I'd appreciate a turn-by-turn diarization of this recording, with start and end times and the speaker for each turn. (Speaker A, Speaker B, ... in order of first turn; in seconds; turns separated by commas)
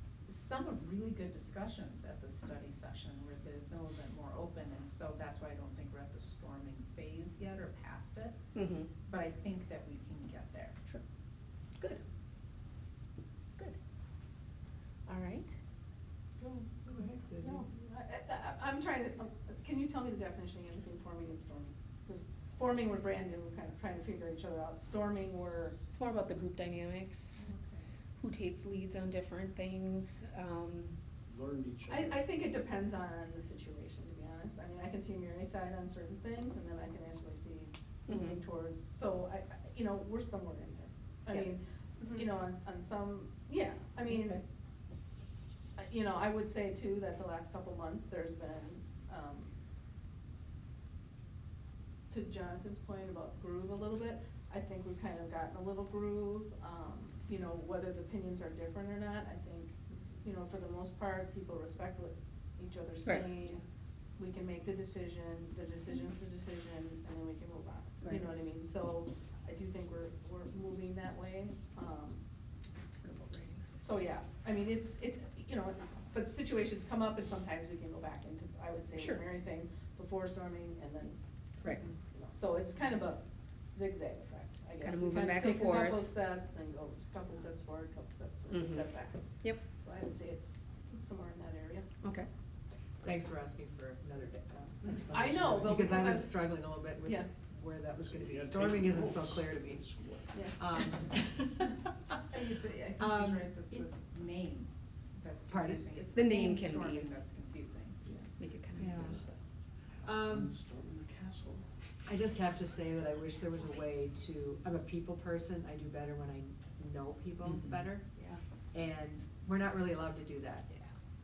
Speaker A: 0.2-8.3, Speaker B: 8.5-8.9, Speaker A: 9.1-10.8, Speaker B: 15.1-15.5, Speaker C: 16.8-17.6, Speaker D: 17.4-25.8, Speaker B: 25.9-27.5, Speaker A: 27.4-27.9, Speaker B: 28.2-30.9, Speaker E: 31.3-32.2, Speaker D: 31.9-44.4, Speaker B: 38.1-38.4, Speaker B: 44.1-44.4, Speaker D: 45.8-49.5, Speaker D: 52.1-63.6, Speaker D: 64.2-72.2, Speaker B: 73.0-73.8, Speaker D: 73.8-81.2, Speaker B: 79.0-79.2, Speaker D: 82.1-91.8, Speaker B: 84.8-86.1, Speaker B: 88.5-88.8, Speaker B: 92.0-92.3, Speaker C: 93.0-99.8, Speaker D: 94.9-96.4, Speaker E: 98.0-100.3, Speaker D: 100.3-100.6, Speaker C: 100.5-101.7, Speaker A: 102.3-108.0, Speaker C: 103.0-103.5, Speaker C: 105.5-105.8, Speaker B: 106.1-107.1, Speaker B: 108.4-109.2, Speaker C: 108.8-109.2, Speaker C: 110.0-110.5, Speaker E: 110.0-111.7, Speaker C: 112.0-118.1, Speaker B: 117.4-117.8, Speaker C: 118.7-120.7